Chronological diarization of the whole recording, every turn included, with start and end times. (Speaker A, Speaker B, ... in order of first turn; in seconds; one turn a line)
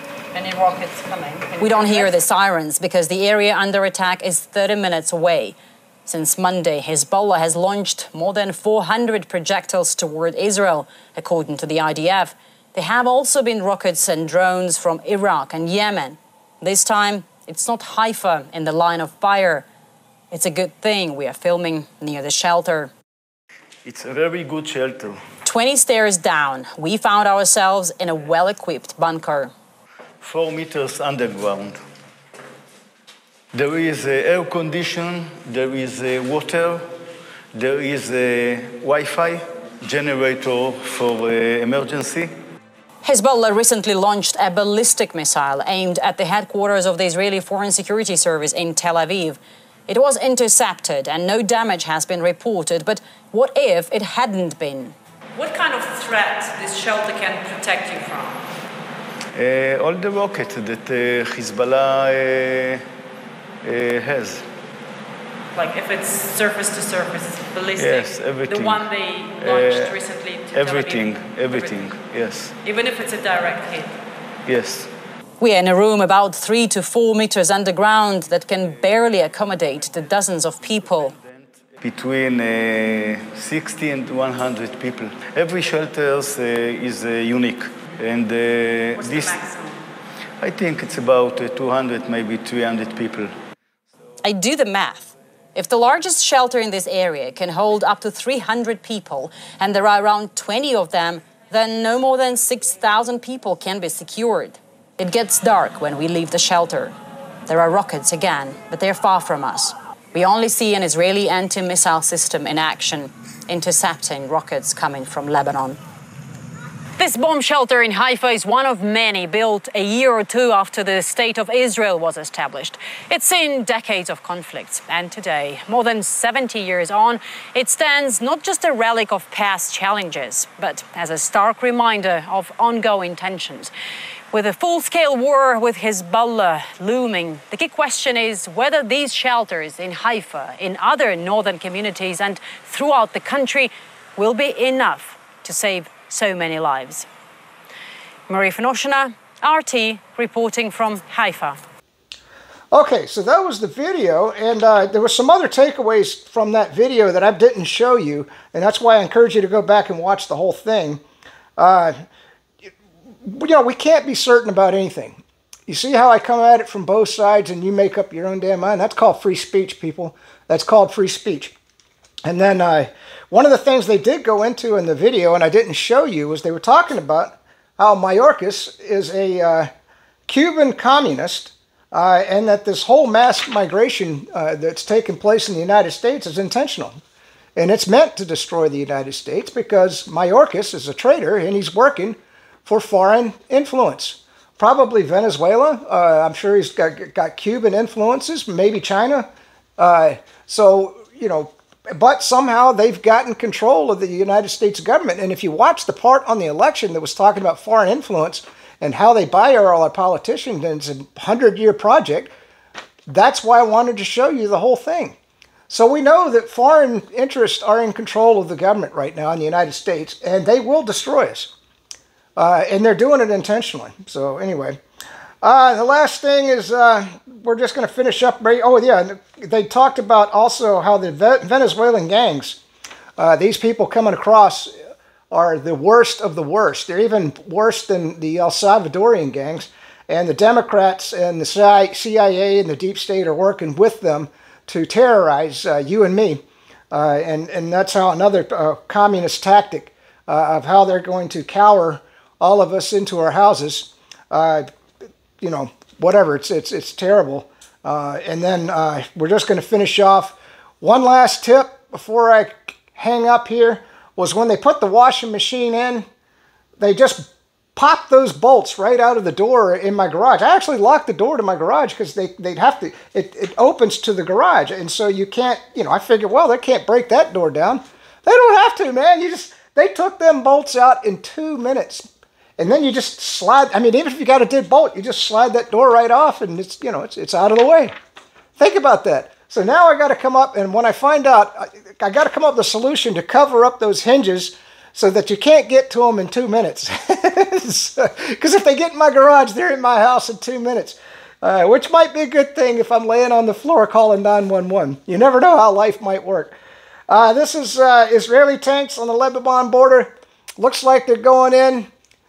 Speaker A: 0.4-2.1
Speaker B: 1.4-5.5
Speaker B: 6.1-19.6
Speaker B: 20.3-22.9
Speaker C: 23.8-25.2
Speaker B: 25.4-29.5
Speaker C: 30.2-31.8
Speaker C: 33.5-36.9
Speaker C: 37.5-42.3
Speaker B: 43.0-54.9
Speaker A: 55.4-58.4
Speaker C: 59.3-62.8
Speaker C: 63.6-64.4
Speaker A: 65.5-71.9
Speaker C: 67.8-68.9
Speaker C: 69.4-69.9
Speaker C: 70.5-72.5
Speaker A: 72.6-73.9
Speaker C: 74.5-74.9
Speaker B: 75.4-81.1
Speaker C: 80.6-89.4
Speaker A: 89.0-89.8
Speaker C: 90.4-93.3
Speaker B: 94.2-106.9
Speaker B: 107.5-115.8
Speaker B: 117.0-133.7
Speaker B: 134.3-147.1
Speaker B: 148.3-151.6
Speaker D: 152.7-161.0
Speaker D: 161.6-162.0
Speaker D: 163.2-171.5
Speaker D: 172.2-179.7
Speaker D: 180.3-187.0
Speaker D: 187.6-212.3
Speaker D: 213.1-215.2
Speaker D: 215.7-221.5
Speaker D: 222.3-224.8
Speaker D: 225.4-232.6
Speaker D: 233.2-234.7
Speaker D: 235.3-254.7
Speaker D: 255.4-266.1
Speaker D: 266.8-287.9
Speaker D: 288.6-306.6
Speaker D: 307.1-311.9